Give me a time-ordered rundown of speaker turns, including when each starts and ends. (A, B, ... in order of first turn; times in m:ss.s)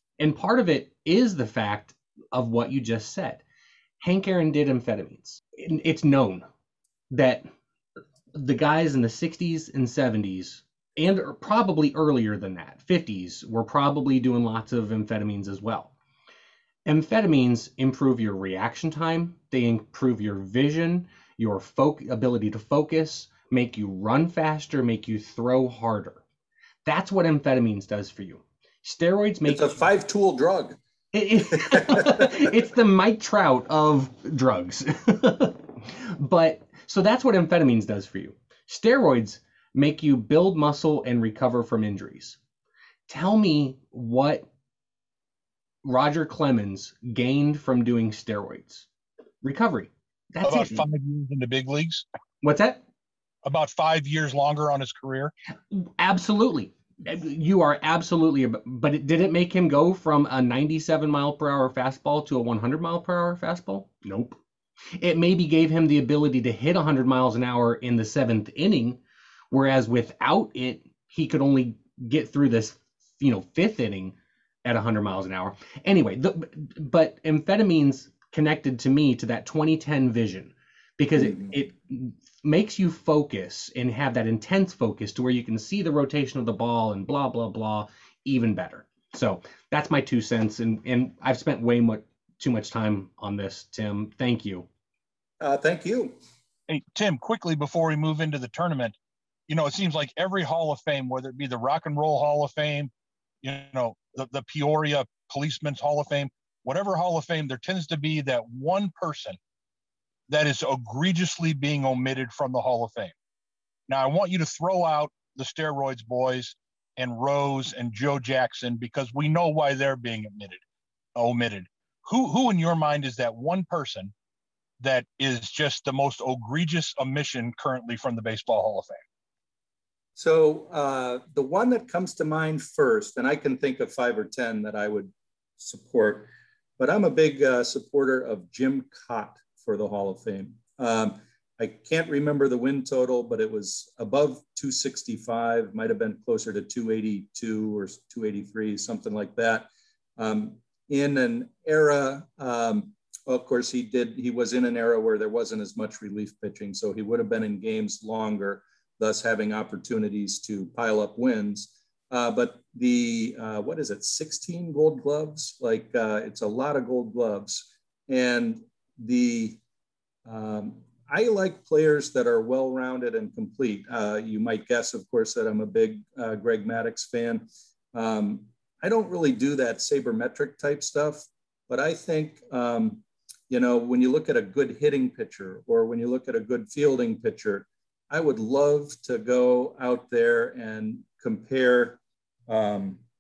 0:00.2-0:03.4 A
0:04.0-0:06.4 A
0:07.1-0:07.5 A
0:08.3-0:15.9 A
0:16.8-0:26.2 A
0:26.8-0:29.7 A
0:29.5-0:30.8 B
0:31.1-0:42.4 A
0:31.6-0:32.2 B
0:43.1-0:44.5 A
0:45.8-0:48.9 A
0:49.4-0:50.9 A
0:50.4-0:52.0 C
0:52.4-0:52.8 A
0:53.4-0:55.3 C
0:55.7-1:04.4 A
1:05.0-1:09.0 A
1:09.5-1:34.7 A
1:21.2-1:21.6 B
1:35.4-1:36.2 B
1:36.7-1:38.9 C
1:39.5-1:42.9 C
1:43.4-1:49.4 C
1:50.3-1:53.1 C
1:53.9-2:00.6 C
2:01.1-2:04.1 C
2:04.8-2:09.0 C
2:10.2-2:49.6 B
2:50.2-3:13.0 B